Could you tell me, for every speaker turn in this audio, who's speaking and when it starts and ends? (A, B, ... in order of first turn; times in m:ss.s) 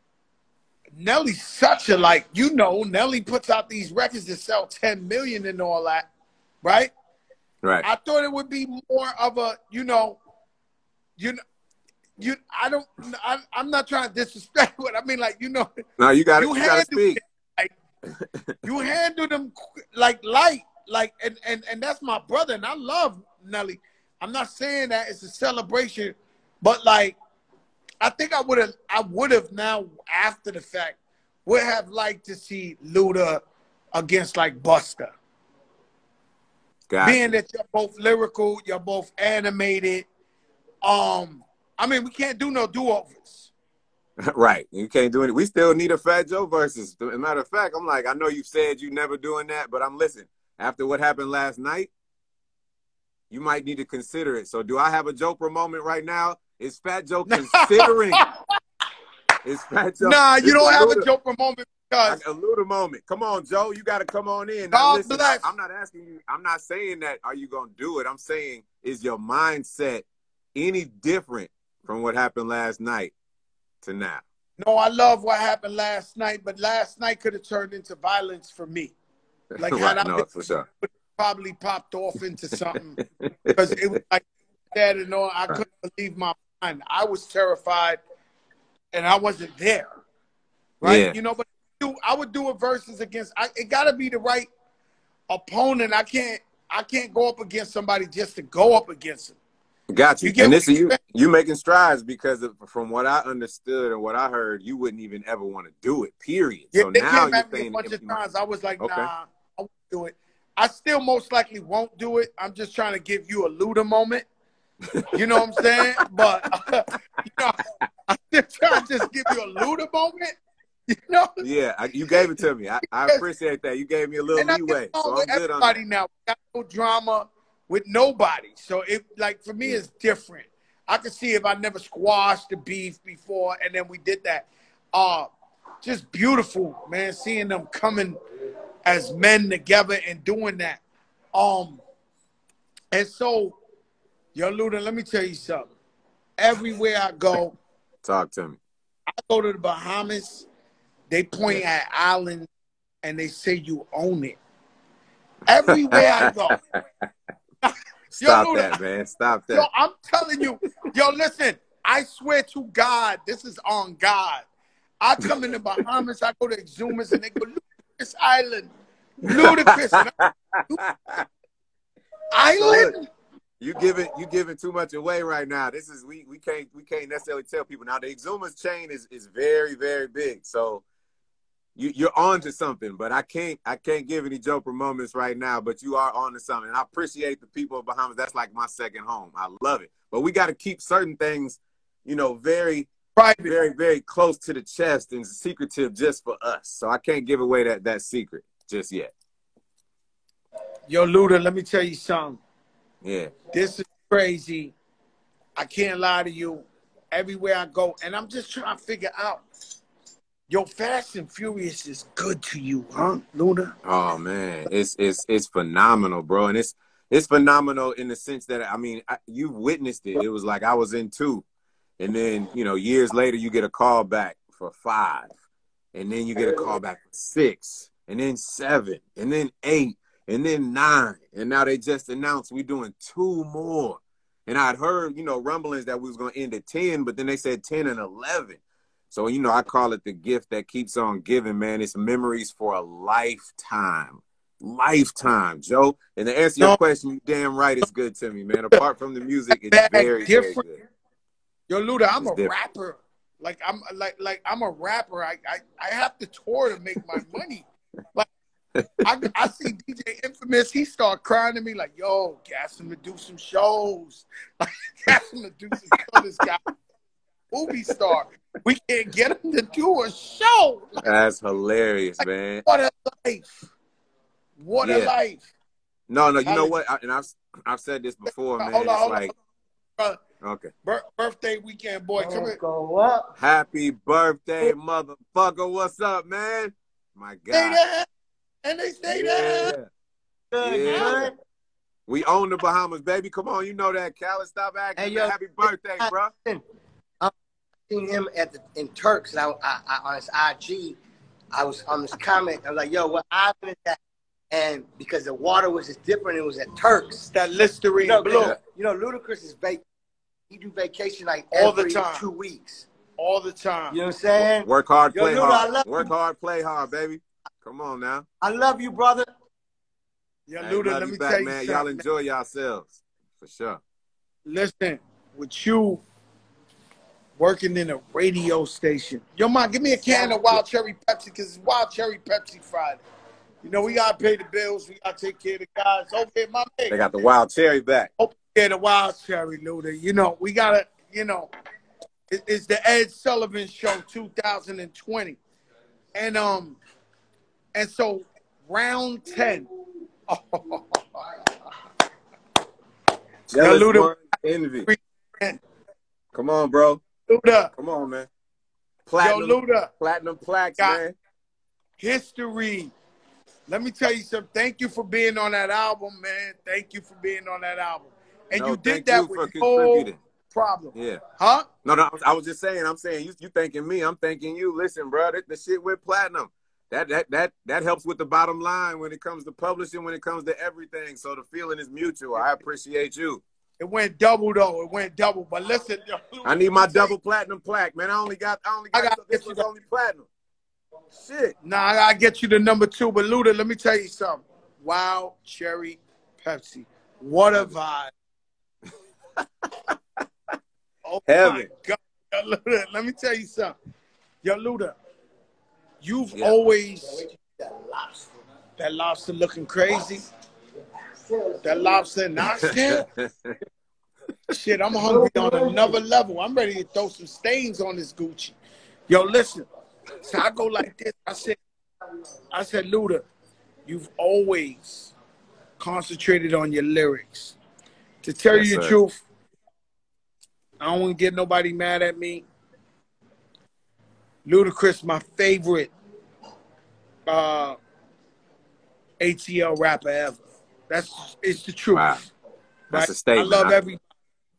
0:01.0-0:06.1 A
0:06.6-0:06.9 A
0:07.8-0:10.2 A
0:12.2-0:15.7 A
0:16.0-0:17.2 B
0:16.4-0:17.7 A
0:18.6-0:27.2 A
0:28.0-0:33.4 A
0:33.9-0:35.1 A
0:36.9-0:37.3 B
0:37.0-0:40.1 A
0:40.8-0:43.5 A
0:44.2-0:51.9 B
0:53.3-0:58.2 B
0:57.3-0:58.3 A
0:59.4-1:01.1 B
1:00.0-1:02.2 A
1:02.0-1:13.1 B
1:04.7-1:05.5 A
1:13.8-1:14.2 B
1:14.6-1:18.9 A
1:19.5-1:20.6 B
1:19.6-1:20.2 A
1:20.8-1:23.0 A
1:23.2-1:23.8 B
1:23.5-1:28.0 A
1:28.9-1:29.9 A
1:30.8-1:34.5 A
1:30.8-1:31.1 B
1:35.3-1:39.4 A
1:39.9-1:48.2 B
1:40.2-1:41.0 A
1:46.7-1:54.3 A
1:48.8-1:49.1 B
1:54.9-1:56.1 B
1:55.1-2:00.4 A
2:00.9-2:01.4 A
2:01.4-2:05.8 B
2:02.9-2:03.2 A
2:04.3-2:15.3 A
2:15.8-2:18.2 A
2:18.8-2:20.8 A
2:21.3-2:21.8 A
2:22.9-2:23.6 A
2:24.3-2:25.7 A
2:26.4-2:27.6 A
2:28.0-2:28.6 B
2:29.1-2:30.5 A
2:31.1-2:32.5 A
2:33.0-2:34.4 A
2:35.4-2:36.6 A
2:35.9-2:37.0 B
2:37.6-2:38.7 A
2:38.1-2:39.7 B
2:39.5-2:44.4 A
2:45.0-2:48.7 A
2:49.2-2:50.1 A
2:49.2-2:51.2 B
2:52.3-2:53.1 A
2:52.6-2:52.9 B
2:53.6-3:00.8 B
3:01.8-3:12.9 B
3:13.2-3:13.5 A
3:13.4-3:19.1 B
3:20.9-3:22.4 A
3:23.0-3:23.3 B
3:23.5-3:24.7 A
3:25.6-3:29.4 A
3:30.5-3:33.7 A
3:33.8-3:41.4 B
3:42.0-3:45.3 B
3:45.9-3:58.6 B
3:59.1-4:10.8 B
4:09.7-4:10.7 A
4:11.7-4:18.3 A
4:12.2-4:12.5 B
4:19.0-4:26.6 A
4:27.5-4:31.0 A
4:31.0-4:32.6 B
4:32.6-4:33.6 A
4:34.6-4:35.5 A
4:34.8-4:35.1 B
4:36.1-4:39.3 B
4:36.4-4:36.7 A
4:38.6-4:39.3 A
4:40.4-4:40.7 B
4:40.8-4:42.6 A
4:42.2-4:43.3 C
4:43.4-4:47.8 B
4:47.5-4:48.1 A
4:48.6-4:49.7 A
4:49.2-4:49.9 B
4:49.4-4:49.7 C
4:50.5-4:51.3 C
4:50.6-4:51.3 B
4:50.9-4:51.2 A
4:52.1-4:56.3 B
4:55.0-4:56.6 C
4:57.9-5:01.0 C
5:01.5-5:04.0 C
5:04.5-5:07.3 C
5:07.3-5:08.5 A
5:08.0-5:09.8 C
5:08.3-5:08.6 B
5:10.5-5:12.9 C
5:11.5-5:12.2 A
5:13.2-5:14.0 A
5:13.9-5:16.1 C
5:14.6-5:18.2 B
5:18.4-5:19.3 C
5:20.5-5:22.0 A
5:20.6-5:23.8 B
5:24.4-5:26.0 A
5:27.4-5:33.0 A
5:33.6-5:37.0 A
5:36.9-5:38.1 B
5:38.2-5:41.5 A
5:42.3-5:45.4 A
5:46.1-5:46.8 A
5:47.7-5:49.7 A
5:50.3-5:51.2 A
5:53.5-5:54.9 B
5:53.6-5:54.1 A
5:54.8-5:55.6 A
5:56.3-5:57.0 B
5:57.3-5:57.7 A
5:57.8-5:58.3 B
5:59.1-6:01.2 B
5:59.2-5:59.9 A
6:02.0-6:02.9 A
6:03.7-6:11.6 A
6:08.5-6:10.2 B
6:10.9-6:11.2 B
6:11.8-6:23.4 B
6:23.8-6:27.1 A
6:26.4-6:30.3 B
6:28.9-6:29.6 A
6:31.1-6:31.5 B
6:31.6-6:38.1 A
6:39.4-6:40.2 B
6:41.0-6:43.7 A
6:41.3-6:41.7 B
6:44.4-6:45.0 A
6:46.0-6:47.2 A
6:47.1-6:48.3 C
6:48.8-6:50.3 A
6:51.2-6:52.0 C
6:51.6-6:53.0 A
6:52.6-6:53.5 B
6:54.5-6:58.6 A
6:55.0-6:56.0 C
6:59.1-6:59.7 A
7:00.2-7:01.6 A
7:02.5-7:03.2 A
7:03.8-7:05.1 A
7:05.8-7:07.5 A
7:08.2-7:09.2 A
7:08.5-7:08.9 B
7:10.8-7:12.4 A
7:14.4-7:15.9 A
7:17.3-7:17.8 A
7:19.2-7:22.3 A
7:21.9-7:22.2 B
7:22.9-7:24.0 A
7:22.9-7:23.9 B